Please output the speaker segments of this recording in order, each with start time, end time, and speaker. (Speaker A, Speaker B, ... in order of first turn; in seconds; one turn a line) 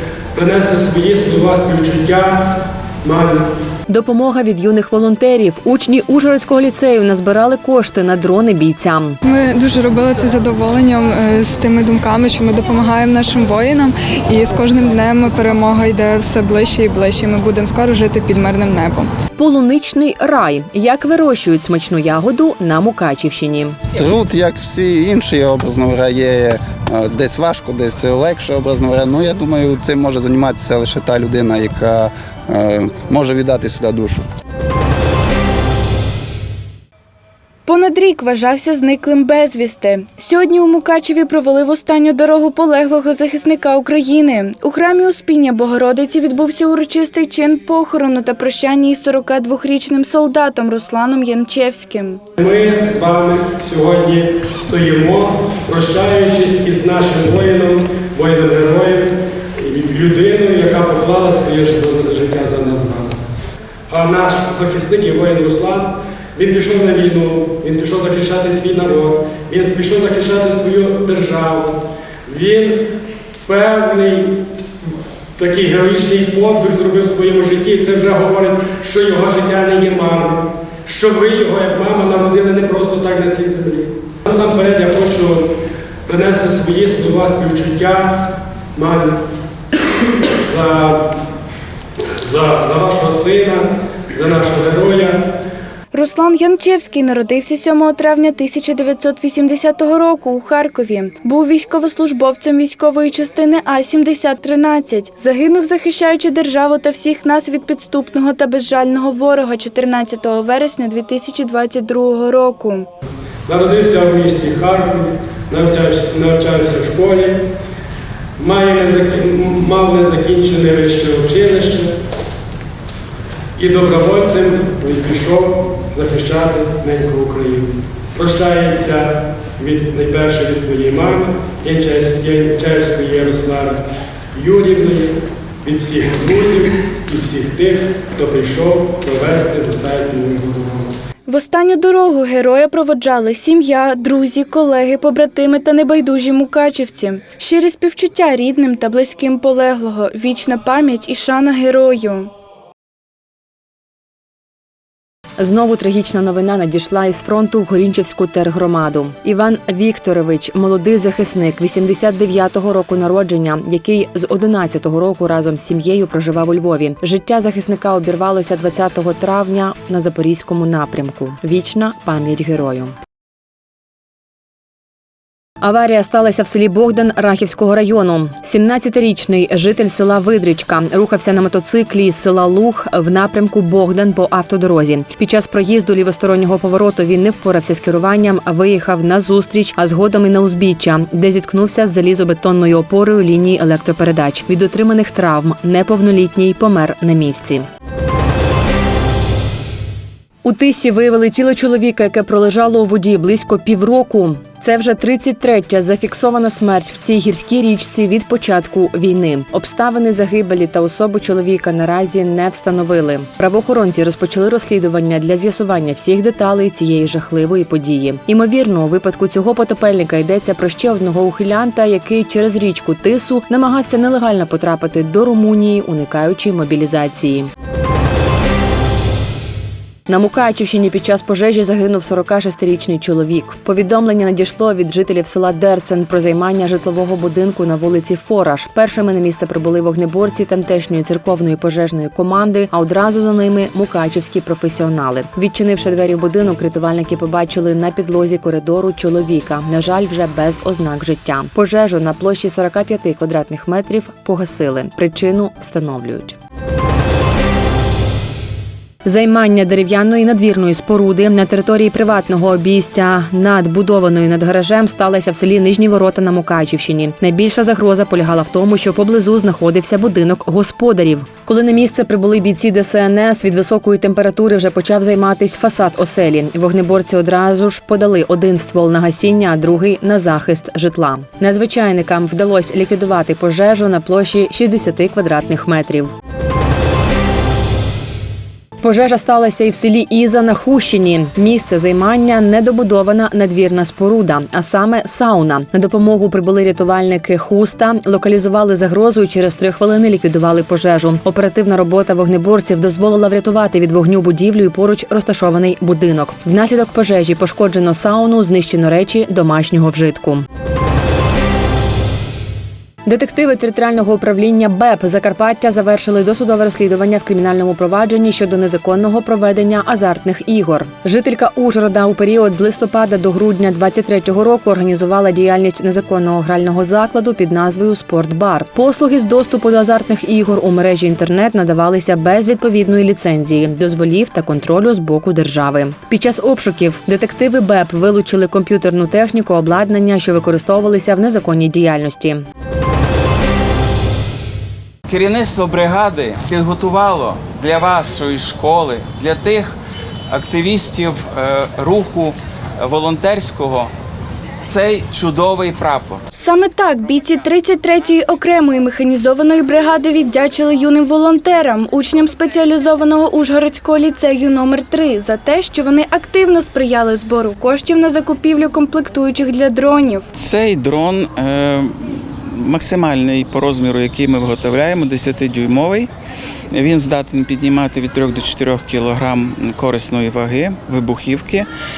Speaker A: 0.3-2.4
Speaker A: 3.0-3.4
Speaker B: 3.9-9.2
Speaker C: 9.2-19.1
Speaker B: 19.4-23.8
Speaker D: 23.9-34.2
Speaker E: 37.7-52.2
Speaker A: 52.4-63.2
Speaker A: 63.9-71.7
Speaker A: 72.3-72.8
Speaker A: 73.5-74.3
Speaker A: 75.4-85.5
Speaker A: 86.1-88.1
Speaker A: 88.8-89.1
Speaker A: 90.5-91.0
Speaker A: 92.2-95.2
Speaker E: 95.9-112.9
Speaker A: 113.5-117.3
Speaker A: 118.4-121.9
Speaker A: 123.6-133.8
Speaker A: 134.3-140.9
Speaker E: 141.3-152.3
Speaker B: 155.4-172.9
Speaker B: 175.6-197.7
Speaker B: 200.4-227.5
Speaker B: 230.1-256.4
Speaker B: 259.1-286.1
Speaker B: 288.8-310.4
Speaker B: 313.1-342.4
Speaker F: 345.1-349.8
Speaker F: 350.3-353.9
Speaker F: 354.7-356.2
Speaker E: 356.4-370.2
Speaker F: 370.4-376.1
Speaker F: 376.7-381.7